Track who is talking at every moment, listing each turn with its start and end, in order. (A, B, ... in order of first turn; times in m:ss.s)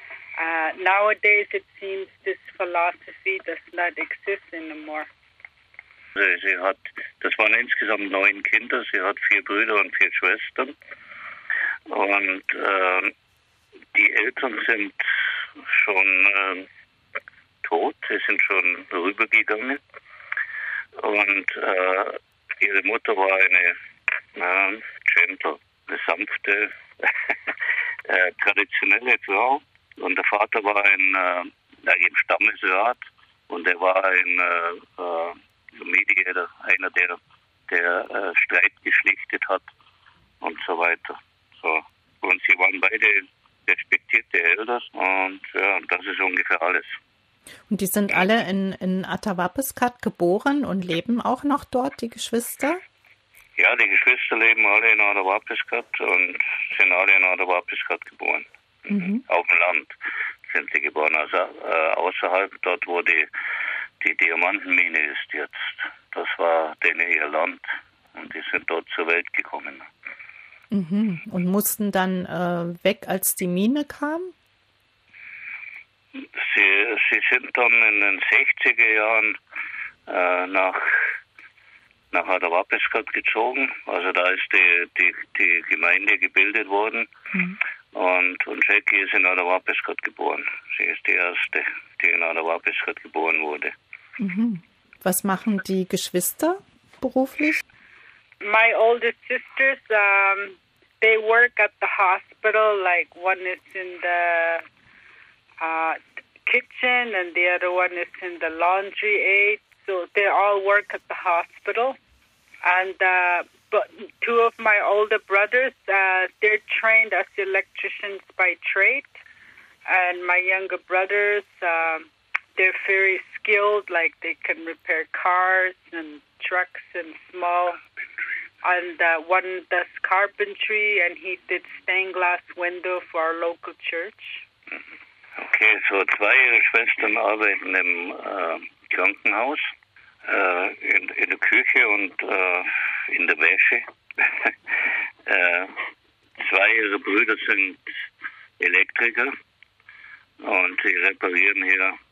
0:00.4-0:05.1 A
0:06.2-0:10.8 B
0:11.9-0:13.1 B
0:13.9-0:16.7 B
0:17.6-0:19.8 B
0:21.0-0:23.8 B
0:24.4-0:27.1 B
0:28.1-0:37.2 B
0:37.7-0:39.7 B
0:40.4-0:47.0 B
0:47.7-0:52.8 C
0:53.6-1:00.0 B
0:58.9-0:59.2 C
1:00.5-1:03.3 B
1:04.0-1:09.9 B
1:10.7-1:14.3 C
1:16.2-1:19.4 B
1:20.1-1:21.1 B
1:22.1-1:27.1 B
1:27.9-1:33.7 B
1:34.2-1:37.6 C
1:38.4-1:44.6 A
1:45.6-1:52.0 A
1:52.6-1:59.1 A
1:59.9-2:07.8 A
2:08.6-2:14.4 A
2:15.4-2:19.7 B
2:20.3-2:24.5 B
2:25.3-2:25.8 B
2:26.4-2:27.9 B
2:28.6-2:29.3 B
2:30.4-2:32.0 B